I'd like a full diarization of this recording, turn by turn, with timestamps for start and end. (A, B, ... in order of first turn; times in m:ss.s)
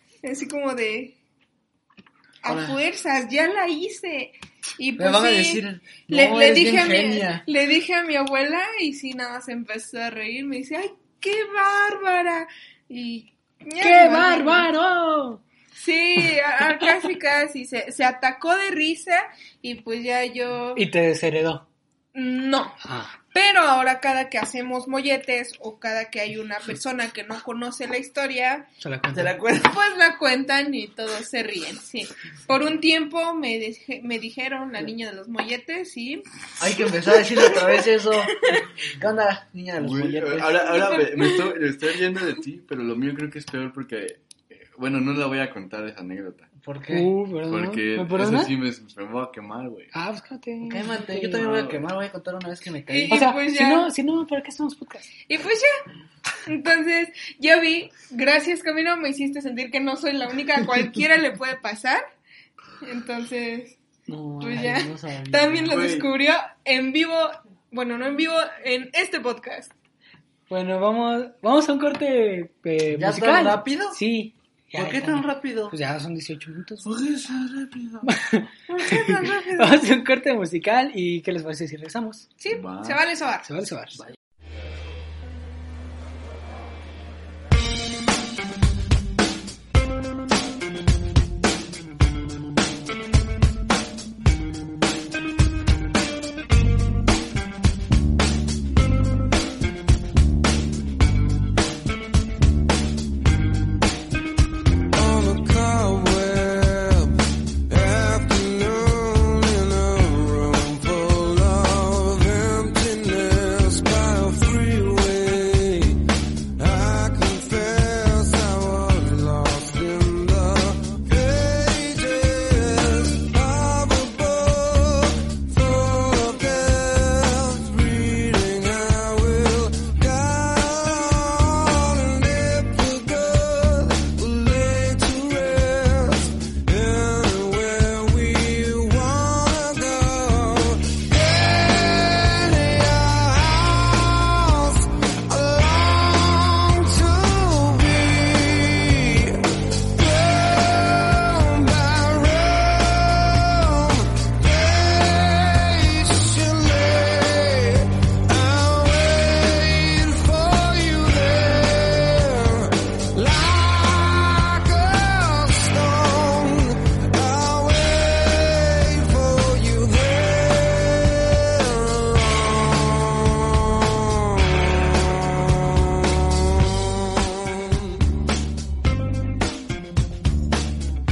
0:00.2-0:01.2 A
0:02.4-0:14.7 A
0:02.4-0:02.8 B
0:05.0-0:07.4 B
0:13.8-0:15.4 C
0:15.7-0:20.8 A
0:20.8-0:21.6 C
0:22.1-0:22.8 A
0:22.8-0:23.2 C
0:23.3-0:28.7 A
0:28.8-0:29.3 C
0:29.1-0:29.8 B
0:29.6-0:36.2 A
0:36.6-0:40.8 B
0:37.1-0:37.9 A
0:39.8-0:46.5 D
0:40.7-0:41.5 A
0:46.6-0:47.1 B
0:46.9-0:48.5 C
0:47.5-0:49.9 D
0:49.9-0:51.5 C
0:50.6-0:53.3 B
0:51.4-0:51.8 D
0:52.9-0:53.9 A
0:53.1-0:55.1 C
0:55.3-0:55.7 A
0:56.4-1:02.0 A
1:02.8-1:03.8 A
1:04.1-1:05.8 B
1:04.4-1:09.7 A
1:05.7-1:06.1 D
1:10.5-1:16.8 C
1:12.9-1:14.0 B
1:14.7-1:15.8 B
1:16.8-1:18.1 D
1:18.0-1:22.3 C
1:18.7-1:19.6 A
1:18.9-1:19.7 B
1:22.4-1:23.4 A
1:22.5-1:23.0 D
1:23.4-1:24.0 C
1:44.9-1:47.2 E
1:47.7-1:56.0 E
1:56.6-2:58.0 E